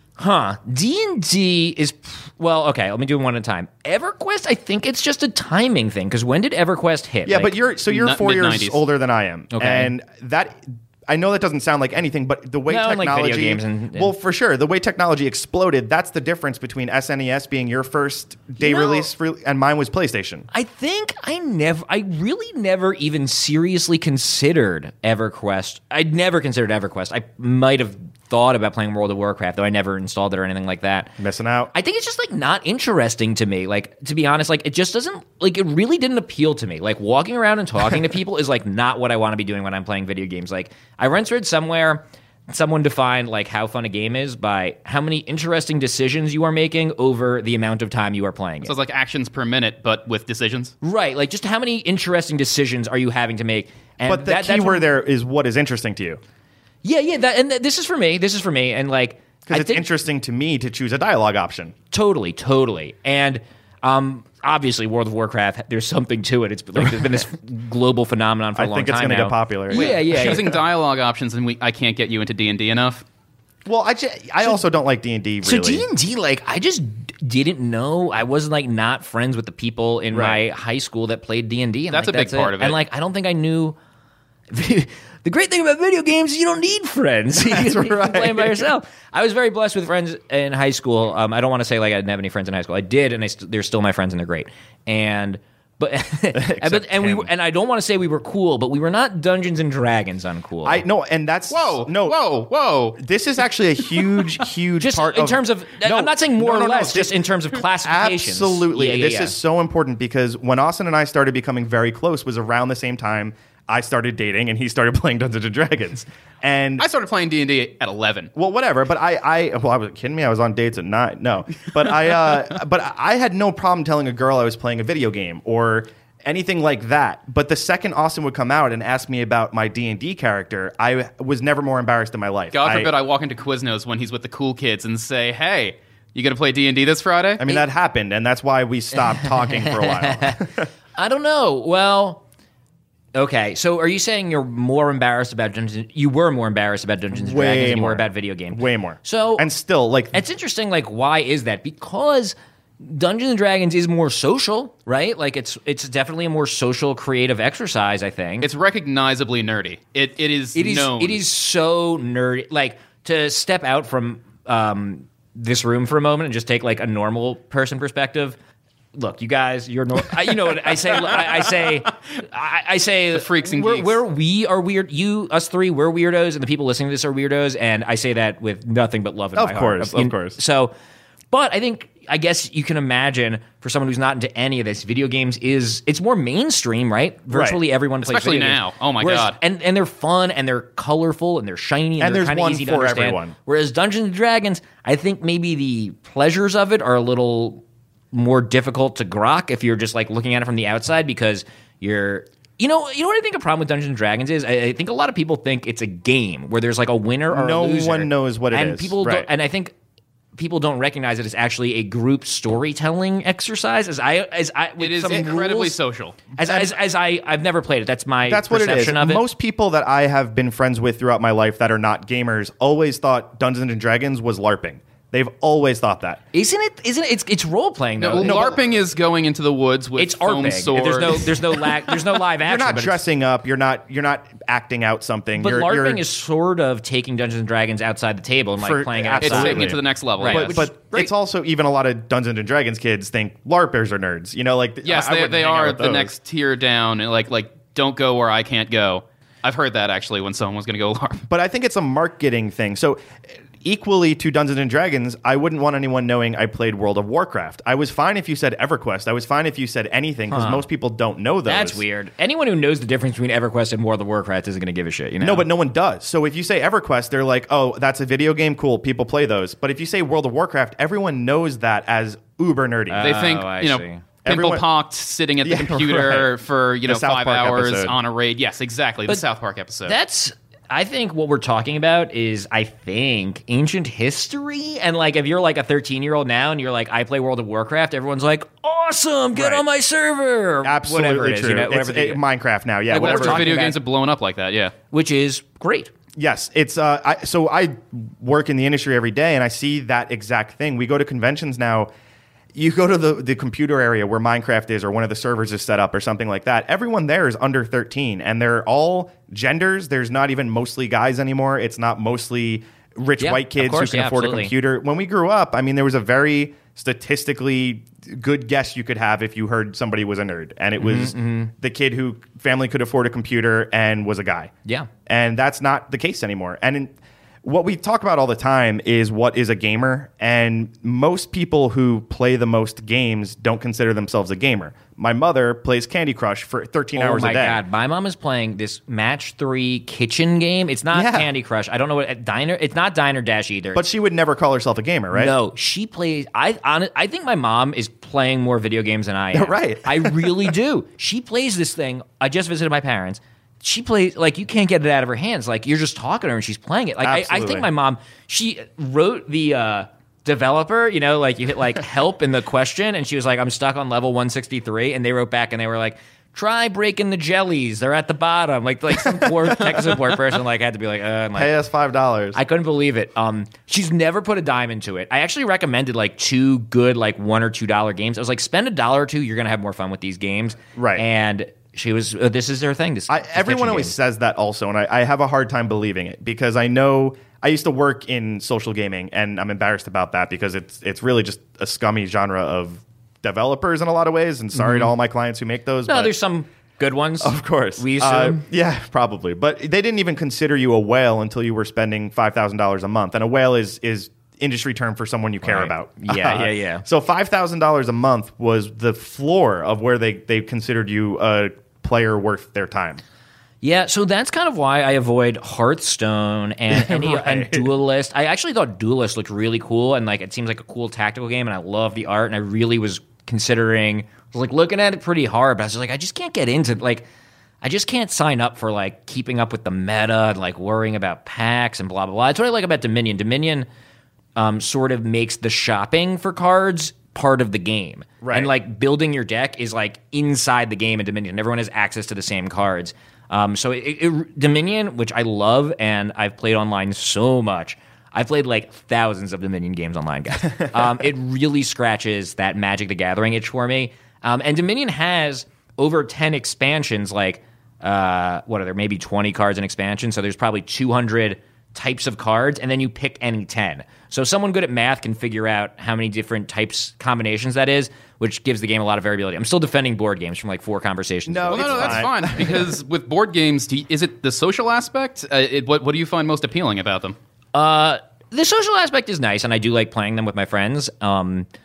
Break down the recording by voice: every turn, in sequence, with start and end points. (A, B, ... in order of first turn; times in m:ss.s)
0:00.2-0:07.5 A
0:07.2-0:20.5 B
0:07.9-0:08.8 C
0:09.5-0:09.9 A
0:12.7-0:14.1 A
0:18.6-0:19.1 A
0:20.5-0:31.2 A
0:31.2-0:31.7 B
0:31.7-0:48.7 A
0:48.6-0:50.8 C
0:50.8-0:54.9 A
0:54.0-0:56.2 B
0:56.8-0:59.9 A
0:59.5-1:01.8 B
1:01.9-1:10.5 A
1:08.6-1:10.4 B
1:09.7-1:13.0 C
1:13.7-1:15.8 B
1:15.4-1:23.8 A
1:20.1-1:20.4 B
1:21.9-1:22.8 C
1:24.5-1:40.8 A
1:27.4-1:28.7 B
1:36.3-1:37.3 B
1:40.6-1:42.2 B
1:41.5-1:43.0 C
1:43.0-1:56.9 B
1:44.8-1:49.4 A
1:56.8-1:58.3 C
1:58.4-2:12.9 B
2:12.5-2:17.5 C
2:17.4-2:20.7 B
2:19.4-2:20.4 A
2:21.0-2:22.2 A
2:23.2-2:29.5 A
2:27.1-2:30.2 B
2:30.1-2:38.5 A
2:38.4-2:41.2 C
2:40.5-2:48.4 A
2:49.0-3:00.7 A
2:53.1-2:54.0 C
2:59.4-3:00.4 B
3:01.3-3:29.7 A
3:07.3-3:07.6 B
3:08.0-3:09.4 C
3:12.0-3:13.4 B
3:27.3-3:29.3 B
3:30.4-3:35.8 A
3:34.8-3:36.2 C
3:36.4-3:39.2 A
3:36.4-3:36.7 B
3:38.3-3:46.2 B
3:46.3-3:48.5 A
3:48.0-3:52.0 C
3:48.2-3:48.6 B
3:50.0-3:53.0 A
3:52.4-3:56.0 B
3:55.4-4:01.1 A
3:58.6-4:06.1 B
3:59.2-4:00.7 C
4:04.8-4:11.2 C
4:11.3-4:13.0 B
4:13.6-4:21.8 B
4:20.3-4:20.6 A
4:21.5-4:25.5 A
4:25.2-4:33.1 B
4:32.9-4:34.1 A
4:33.0-4:40.0 C
4:34.2-4:34.6 B
4:35.4-4:36.3 B
4:36.8-4:38.0 B
4:39.9-4:52.2 A
4:49.4-4:49.6 B
4:50.6-4:53.5 B
4:52.9-4:53.8 A
4:53.0-4:54.7 C
4:54.9-4:55.9 A
4:56.2-5:01.9 B
5:02.5-5:24.5 B
5:13.2-5:14.5 A
5:20.8-5:21.5 A
5:25.1-5:26.9 B
5:27.4-5:37.6 B
5:37.0-5:43.9 A
5:40.9-5:41.3 B
5:43.8-5:45.3 B
5:45.1-6:11.5 A
5:49.3-5:50.5 B
5:57.0-5:57.7 B
6:11.4-6:12.4 B
6:12.3-6:23.9 A
6:20.8-6:21.0 B
6:23.1-6:36.1 B
6:34.6-6:34.9 A
6:35.9-6:38.4 A
6:37.2-6:53.0 B
6:45.4-6:46.8 A
6:53.6-7:07.0 A
6:56.7-6:57.7 B
7:07.6-7:13.7 A
7:14.4-7:52.1 A
7:18.2-7:18.5 B
7:51.3-7:52.7 B
7:51.5-7:57.2 C
7:57.5-8:01.5 A